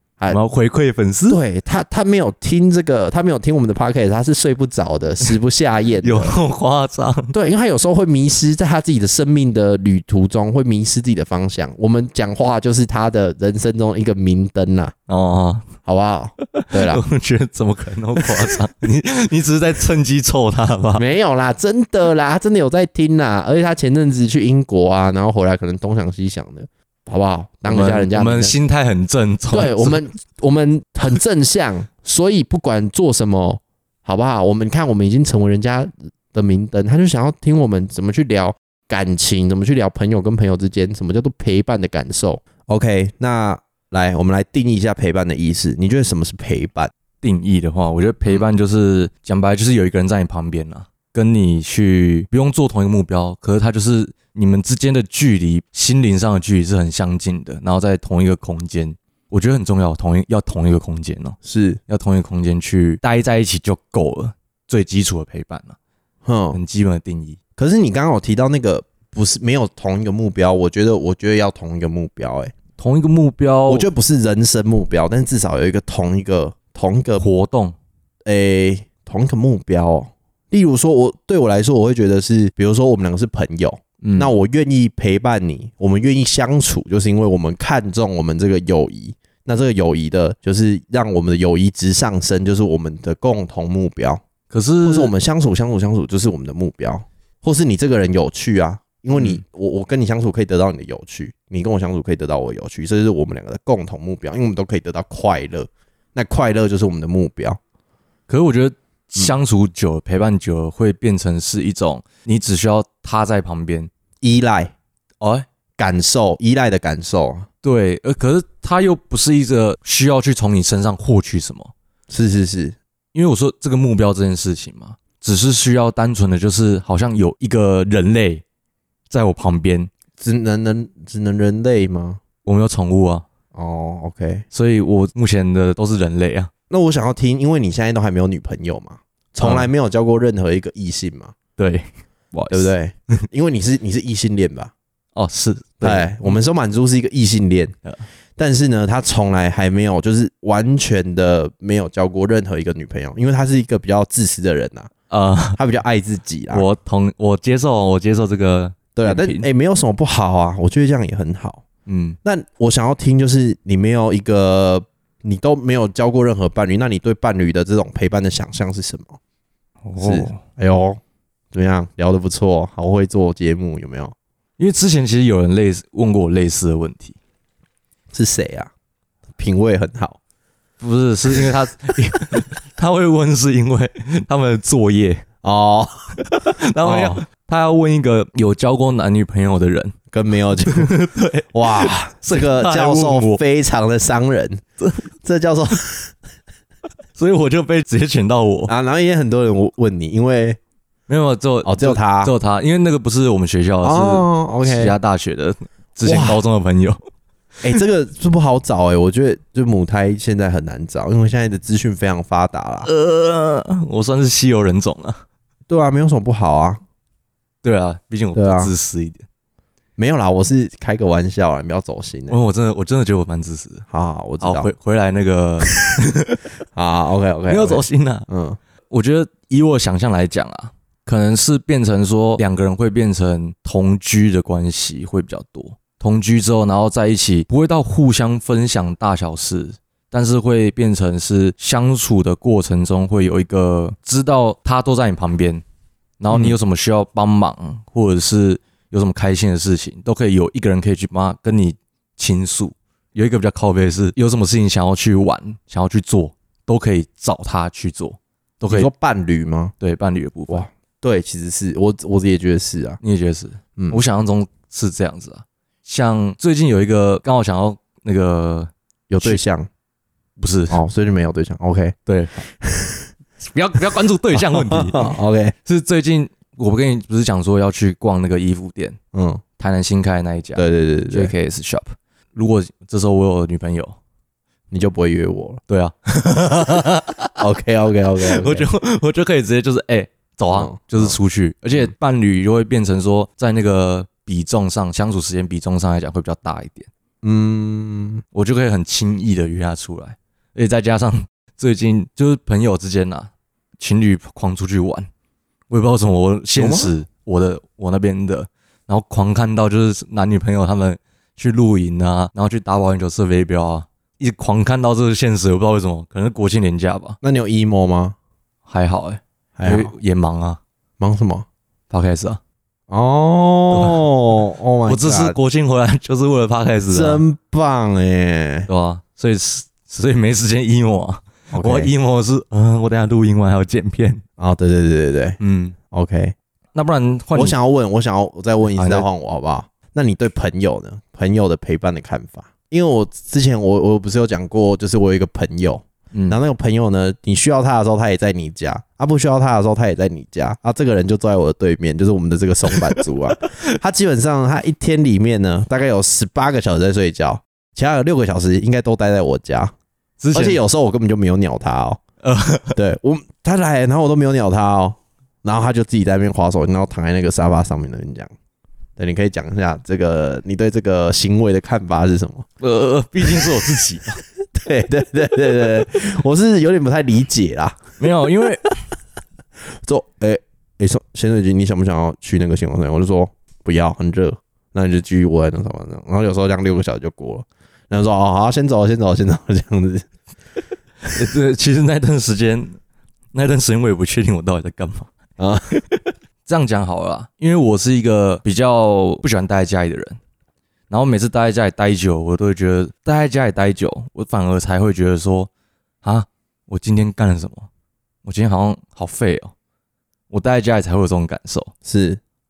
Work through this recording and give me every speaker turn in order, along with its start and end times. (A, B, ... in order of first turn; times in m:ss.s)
0:00.3-0:01.4 A
0:01.3-0:06.4 B
0:06.0-0:07.3 A
0:07.3-0:14.9 B
0:15.1-0:15.7 A
0:15.8-0:17.0 B
0:16.5-0:21.0 A
0:18.2-0:18.6 B
0:21.0-0:28.6 B
0:27.7-0:30.0 A
0:29.5-0:46.9 B
0:47.2-1:01.4 A
1:01.4-1:01.8 B
1:01.9-1:05.8 A
1:06.2-1:06.6 B
1:06.5-1:07.4 A
1:07.6-1:12.5 B
1:12.8-1:13.9 A
1:13.7-1:17.3 B
1:17.2-1:17.8 A
1:18.2-1:34.2 B
1:24.0-1:24.3 A
1:34.5-1:35.1 A
1:34.8-1:47.6 B
1:39.2-1:39.4 A
1:48.3-1:53.9 A
1:54.2-1:54.7 B
1:55.2-1:55.5 A
1:55.8-1:57.5 B
1:57.6-2:01.7 A
2:02.1-2:02.8 B
2:03.1-2:08.4 A
2:09.1-2:09.9 A
2:10.2-2:12.2 B
2:12.4-2:13.3 A
2:13.5-2:14.4 B
2:14.5-2:16.5 A
2:16.7-2:21.4 B
2:19.4-2:19.7 A
2:21.6-2:22.7 A
2:22.5-2:24.7 B
2:25.2-2:26.4 A
2:25.8-2:27.7 B
2:28.4-2:34.9 B
2:35.1-2:35.6 A
2:35.6-2:36.7 B
2:36.5-2:39.5 A
2:39.0-2:41.6 B
2:41.9-2:42.2 A
2:42.2-2:49.2 B
2:49.8-2:50.4 A
2:50.0-2:51.0 B
2:51.5-2:54.2 B
2:54.6-2:57.2 A
2:58.1-2:58.7 B
2:59.4-3:00.2 B
3:00.8-3:05.3 A
3:05.4-3:07.2 B
3:06.2-3:10.0 A
3:10.1-3:10.9 B
3:10.6-3:13.4 A
3:11.5-3:14.6 B
3:15.2-3:16.1 B
3:17.2-3:18.7 A
3:18.7-3:20.6 B
3:21.1-3:27.0 A
3:21.6-3:22.3 B
3:23.8-3:25.0 B
3:26.0-3:26.4 B
3:27.6-3:32.9 B
3:32.8-3:35.2 A
3:35.7-3:36.8 B
3:37.6-3:39.2 A
3:38.4-3:38.7 B
3:40.0-3:42.4 B
3:42.3-3:43.9 A
3:43.9-3:44.7 B
3:44.4-3:46.5 A
3:46.7-3:48.6 B
3:47.5-3:48.3 A
3:48.9-4:05.6 A
4:06.2-4:18.9 A
4:06.3-4:06.6 B
4:18.7-4:19.7 B
4:19.8-4:20.7 A
4:20.5-4:23.0 B
4:23.0-4:29.4 A
4:29.1-4:29.7 B
4:30.4-4:30.8 A
4:30.7-4:33.1 B
4:32.1-4:32.4 A
4:33.4-4:35.1 A
4:34.3-4:35.6 B
4:35.6-4:39.0 A
4:39.1-4:39.4 B
4:39.6-4:44.0 A
4:40.6-4:41.3 B
4:44.7-4:45.6 B
4:45.7-4:47.4 A
4:47.4-4:48.7 B
4:48.2-4:56.9 A
4:50.5-4:51.2 B
4:57.2-4:58.2 B
4:58.3-5:05.1 A
5:05.7-5:17.2 A
5:06.6-5:06.9 B
5:17.2-5:18.2 B
5:18.7-5:20.6 A
5:19.6-5:19.9 B
5:21.0-5:21.5 B
5:21.9-5:22.4 A
5:22.9-5:25.4 B
5:23.7-5:24.1 A
5:24.9-5:27.2 A
5:26.9-5:28.7 B
5:28.7-5:34.2 A
5:31.5-5:31.9 B
5:34.4-5:35.4 B
5:35.4-5:35.8 A
5:35.9-5:36.4 B
5:36.8-5:37.6 A
5:37.3-5:59.7 B
5:38.7-5:39.1 A
5:46.1-5:46.4 A
5:52.7-5:53.0 A
6:00.2-6:00.6 A
6:00.3-6:02.0 B
6:02.2-6:02.8 A
6:02.8-6:08.3 B
6:09.0-6:12.5 B
6:12.6-6:14.2 A
6:13.2-6:13.6 B
6:14.5-6:17.8 B
6:18.0-6:18.8 A
6:19.8-6:30.1 B
6:31.1-6:32.8 A
6:33.3-6:35.1 A
6:35.4-6:35.8 B
6:35.7-6:40.2 A
6:40.9-6:45.5 A
6:46.0-6:47.7 A
6:48.2-6:49.5 A
6:50.3-6:51.7 A
6:51.8-6:52.2 B